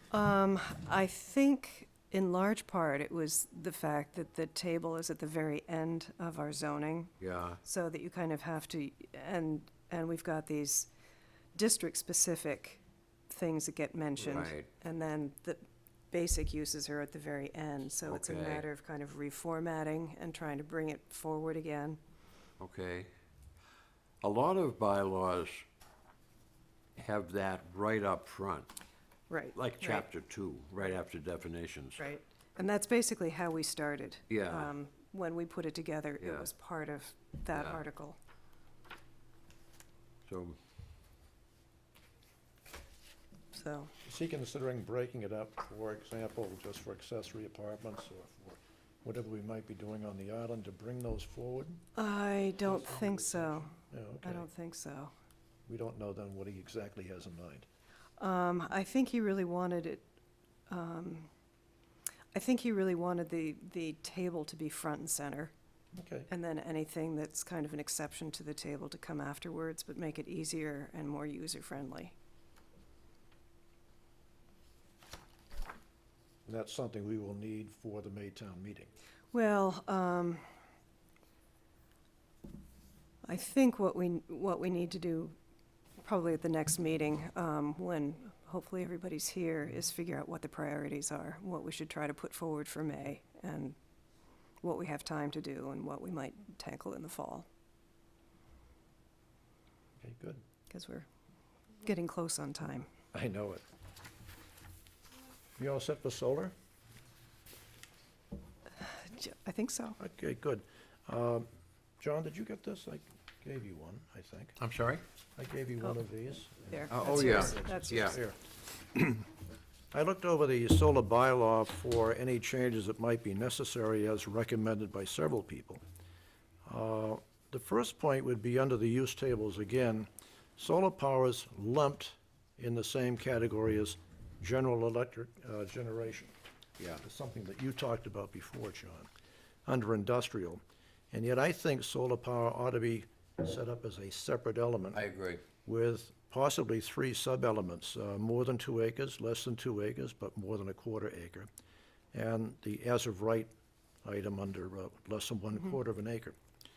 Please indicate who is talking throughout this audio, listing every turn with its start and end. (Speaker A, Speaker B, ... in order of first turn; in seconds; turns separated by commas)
Speaker A: 0.1-7.1, Speaker B: 7.2-7.6, Speaker A: 7.6-10.9, Speaker A: 11.6-22.0, Speaker B: 14.2-14.7, Speaker B: 18.1-18.6, Speaker B: 22.6-23.1, Speaker B: 24.2-25.6, Speaker B: 27.0-28.7, Speaker A: 29.3-30.1, Speaker B: 29.5-32.1, Speaker A: 32.0-38.2, Speaker B: 34.3-34.7, Speaker B: 36.2-36.5, Speaker B: 37.5-37.8, Speaker B: 40.3-40.6, Speaker A: 43.5-43.9, Speaker C: 44.0-51.8, Speaker A: 52.0-55.1, Speaker C: 52.6-54.5, Speaker C: 55.7-57.7, Speaker A: 58.2-60.0, Speaker A: 60.7-61.3, Speaker A: 62.3-65.5, Speaker C: 66.0-66.3, Speaker A: 66.3-72.1, Speaker C: 76.5-78.9, Speaker A: 79.3-80.5, Speaker A: 83.2-85.3, Speaker A: 86.0-93.8, Speaker A: 94.6-97.5, Speaker C: 100.0-100.4, Speaker A: 100.7-101.1, Speaker A: 101.8-102.9, Speaker C: 103.1-103.6, Speaker C: 105.6-106.5, Speaker A: 108.8-110.0, Speaker C: 110.0-111.5, Speaker C: 112.0-114.6, Speaker B: 114.6-115.0, Speaker C: 115.4-118.4, Speaker A: 116.7-118.2, Speaker B: 116.9-118.2, Speaker C: 118.9-119.3, Speaker C: 119.9-125.8, Speaker C: 126.7-136.3, Speaker C: 137.0-139.1, Speaker C: 139.7-145.0, Speaker B: 144.9-145.4, Speaker C: 145.7-151.5, Speaker C: 152.1-153.5, Speaker C: 154.0-156.4